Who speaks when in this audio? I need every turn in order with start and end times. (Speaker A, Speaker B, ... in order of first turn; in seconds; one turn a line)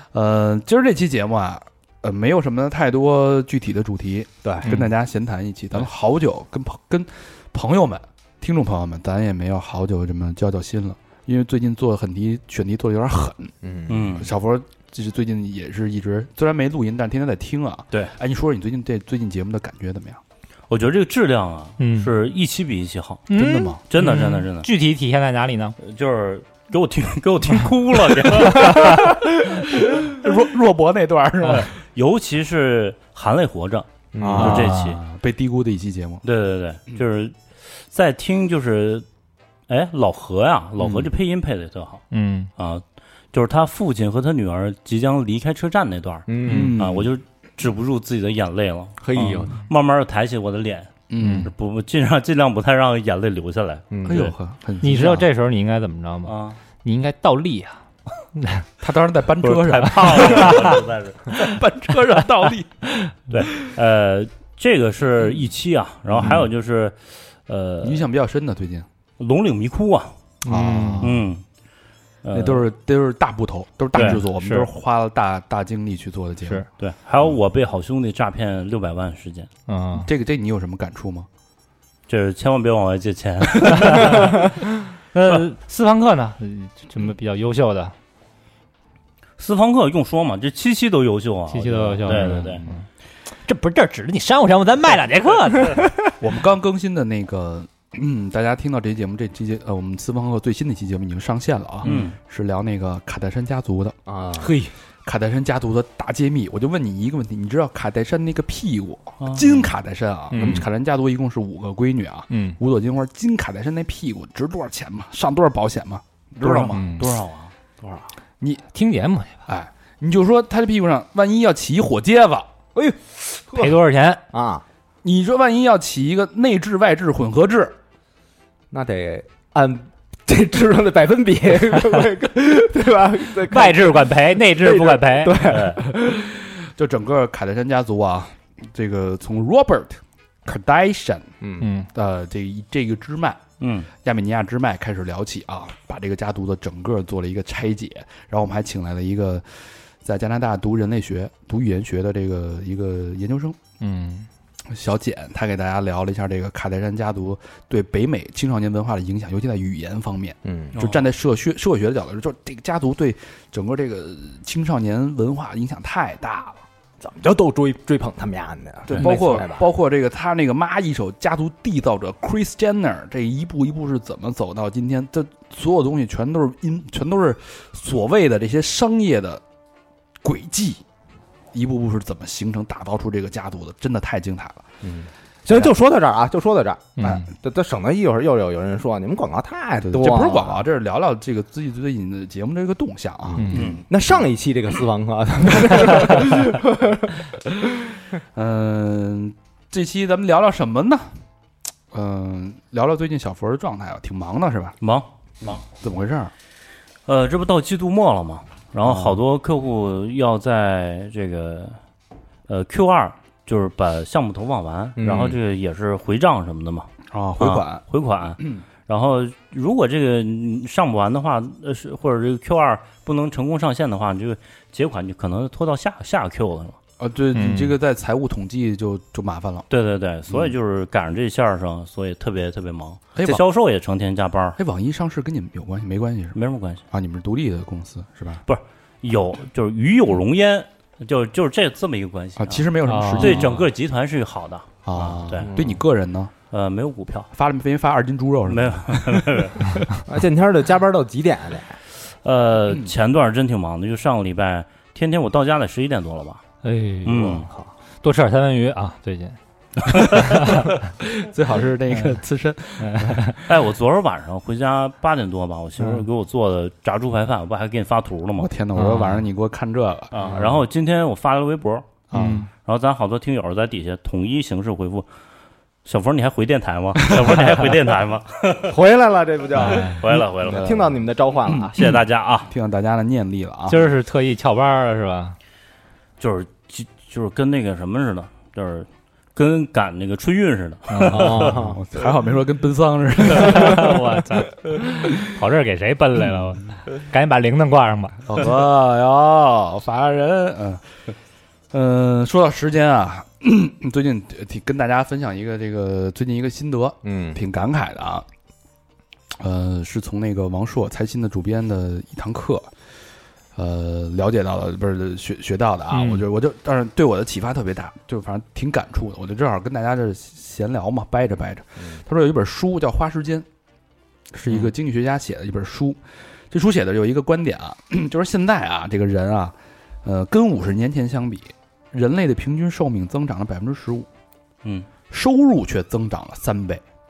Speaker A: 0.1-13.5
Speaker B: 4.4-4.8
Speaker B: 13.6-14.1
Speaker C: 13.9-14.3
Speaker A: 14.1-20.2
Speaker C: 20.7-23.3
Speaker D: 21.8-22.1
Speaker D: 23.3-25.8
Speaker A: 23.3-23.8
Speaker C: 23.9-24.7
Speaker C: 25.8-29.1
Speaker A: 28.4-31.7
Speaker C: 31.4-35.0
Speaker B: 34.1-34.6
Speaker A: 34.2-36.2
Speaker D: 34.4-34.9
Speaker C: 36.2-37.4
Speaker C: 37.9-39.0
Speaker C: 39.7-42.0
Speaker B: 40.8-41.1
Speaker D: 42.1-42.5
Speaker C: 42.6-54.3
Speaker B: 46.3-46.8
Speaker A: 46.5-47.1
Speaker B: 49.0-49.5
Speaker A: 51.1-51.5
Speaker D: 51.2-51.5
Speaker B: 53.9-54.2
Speaker A: 54.0-55.3
Speaker D: 54.8-57.8
Speaker C: 56.2-56.6
Speaker D: 58.3-58.6
Speaker A: 58.8-60.7
Speaker C: 59.4-61.5
Speaker D: 59.9-60.7
Speaker A: 61.3-62.7
Speaker C: 63.3-68.0
Speaker A: 66.2-66.5
Speaker A: 67.8-68.8
Speaker C: 69.2-70.1
Speaker D: 70.4-71.1
Speaker A: 70.5-71.2
Speaker C: 71.0-71.4
Speaker C: 72.2-72.6
Speaker A: 72.3-76.6
Speaker C: 73.9-74.2
Speaker D: 73.9-74.7
Speaker C: 76.8-79.5
Speaker D: 79.7-80.1
Speaker A: 80.0-81.3
Speaker C: 82.1-84.4
Speaker D: 83.6-84.6
Speaker D: 85.1-87.9
Speaker C: 89.4-92.6
Speaker D: 91.5-92.8
Speaker A: 92.2-92.5
Speaker D: 93.5-95.9
Speaker A: 96.2-103.9
Speaker C: 101.8-102.2
Speaker B: 104.1-104.5
Speaker D: 104.4-104.7
Speaker A: 105.0-116.9
Speaker C: 109.2-109.7
Speaker D: 110.3-110.6
Speaker D: 112.3-112.6
Speaker C: 116.4-118.0
Speaker D: 116.7-117.1
Speaker D: 118.7-119.4
Speaker A: 119.5-122.5
Speaker B: 122.7-124.6
Speaker D: 123.5-124.2
Speaker A: 125.0-127.8
Speaker B: 128.7-136.2
Speaker D: 133.5-135.4
Speaker C: 135.4-135.8
Speaker A: 136.0-141.3
Speaker B: 141.4-141.7
Speaker D: 141.6-141.9
Speaker A: 141.9-143.4
Speaker C: 143.6-143.9
Speaker A: 144.0-153.6
Speaker D: 153.8-154.3
Speaker A: 154.7-166.6
Speaker B: 160.4-160.7
Speaker C: 160.7-161.0
Speaker B: 167.0-169.7
Speaker A: 168.8-179.4
Speaker A: 180.2-180.8
Speaker A: 181.5-184.7
Speaker B: 184.8-190.7
Speaker A: 185.5-185.7
Speaker D: 187.0-187.3
Speaker A: 189.8-193.9
Speaker B: 193.3-197.1
Speaker D: 193.4-193.6
Speaker C: 193.5-193.8
Speaker A: 195.7-196.3
Speaker A: 198.3-201.2
Speaker A: 201.9-204.8
Speaker C: 204.8-205.6
Speaker A: 205.4-206.3
Speaker C: 207.1-211.8
Speaker A: 208.8-209.2
Speaker C: 212.5-226.8
Speaker B: 215.0-215.4
Speaker A: 217.1-217.8
Speaker A: 227.0-229.7
Speaker D: 227.3-227.7
Speaker C: 229.7-234.6
Speaker A: 233.2-233.4
Speaker A: 234.6-236.4
Speaker C: 236.3-236.8
Speaker A: 236.9-238.4
Speaker C: 238.4-245.5
Speaker A: 242.4-243.7
Speaker D: 242.8-243.5
Speaker A: 244.8-246.3
Speaker B: 245.4-245.8
Speaker C: 246.5-247.3
Speaker A: 247.3-249.8
Speaker C: 248.5-249.7
Speaker B: 250.1-251.8
Speaker C: 252.2-256.4
Speaker D: 256.6-257.5
Speaker C: 257.0-257.5
Speaker B: 257.4-257.7
Speaker D: 258.0-259.4
Speaker C: 259.9-260.3
Speaker D: 260.0-260.8
Speaker A: 260.4-263.3
Speaker D: 262.8-263.4
Speaker C: 263.4-268.5
Speaker A: 268.4-270.6
Speaker D: 268.8-269.2
Speaker C: 270.1-271.9
Speaker A: 272.1-272.5
Speaker D: 272.1-272.5
Speaker C: 272.6-275.1
Speaker C: 275.8-278.8
Speaker A: 277.0-277.4
Speaker B: 278.7-281.7
Speaker D: 279.6-280.0
Speaker C: 279.6-280.8
Speaker A: 280.4-281.9
Speaker C: 281.7-282.5
Speaker A: 282.5-283.9
Speaker D: 283.7-285.4
Speaker C: 286.2-291.6
Speaker D: 290.9-291.5
Speaker B: 291.0-291.8
Speaker A: 291.4-294.2
Speaker D: 293.4-298.2
Speaker A: 298.2-300.8
Speaker A: 301.7-308.2
Speaker B: 307.0-307.4
Speaker A: 309.4-312.7
Speaker A: 313.6-323.4
Speaker D: 315.9-316.2
Speaker A: 324.3-334.1
Speaker A: 335.1-336.8